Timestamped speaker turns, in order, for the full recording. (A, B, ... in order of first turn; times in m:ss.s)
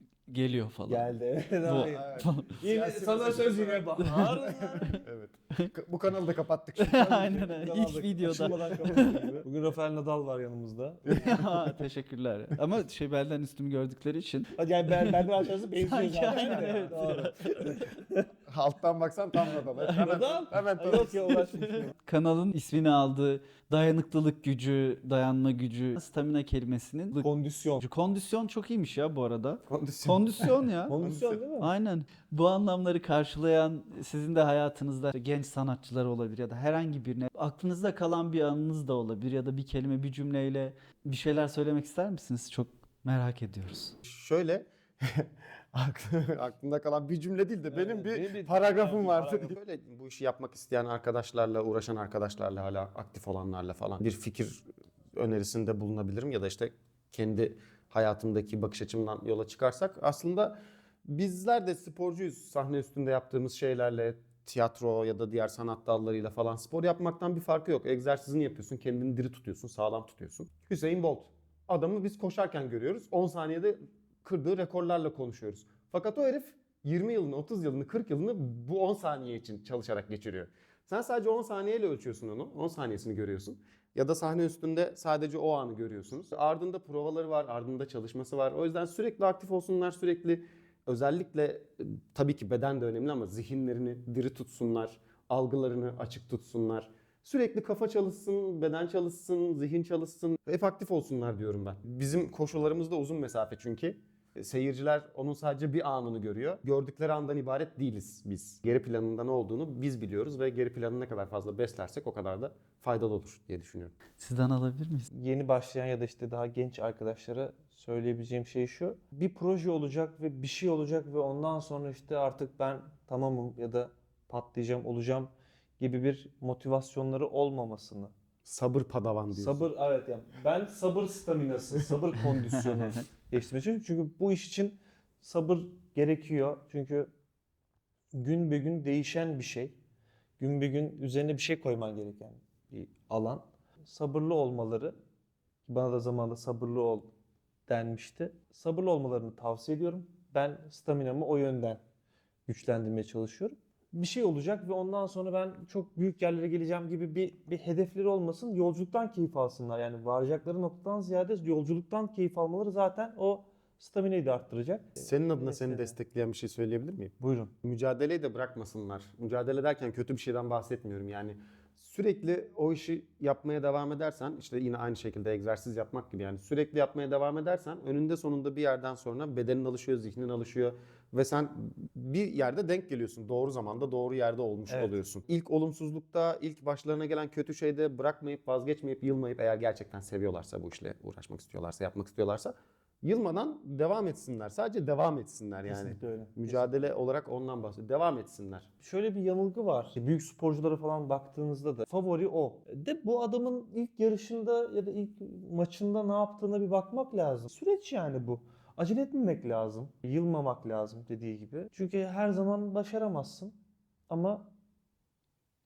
0:00.3-0:01.1 A
0:00.9-0:05.0 B
0:01.6-0:02.6 A
0:01.9-0:07.6 C
0:04.0-0:05.0 A
0:06.8-0:09.4 A
0:07.1-0:11.4 B
0:09.0-0:09.3 C
0:11.1-0:11.6 C
0:11.1-0:17.9 A
0:14.6-0:18.3 B
0:16.3-0:16.9 C
0:18.5-0:21.5 C
0:19.9-0:22.0 B
0:21.4-0:31.0 A
0:27.2-0:27.8 B
0:29.7-0:31.4 C
0:30.9-0:31.7 B
0:31.6-0:44.0 A
0:44.0-1:54.0 C
0:47.7-0:49.6 B
1:54.2-1:55.1 A
1:55.1-2:08.1 B
2:08.5-2:09.6 C
2:09.3-2:17.1 B
2:18.1-2:19.8 B
2:20.4-2:25.0 B
2:25.7-2:27.1 B
2:27.7-2:31.8 B
2:32.5-2:45.9 B
2:45.0-3:18.7 C
2:47.2-2:47.5 B
3:04.7-3:05.0 B
3:15.7-3:16.9 B
3:18.8-3:33.6 B
3:34.1-3:34.5 B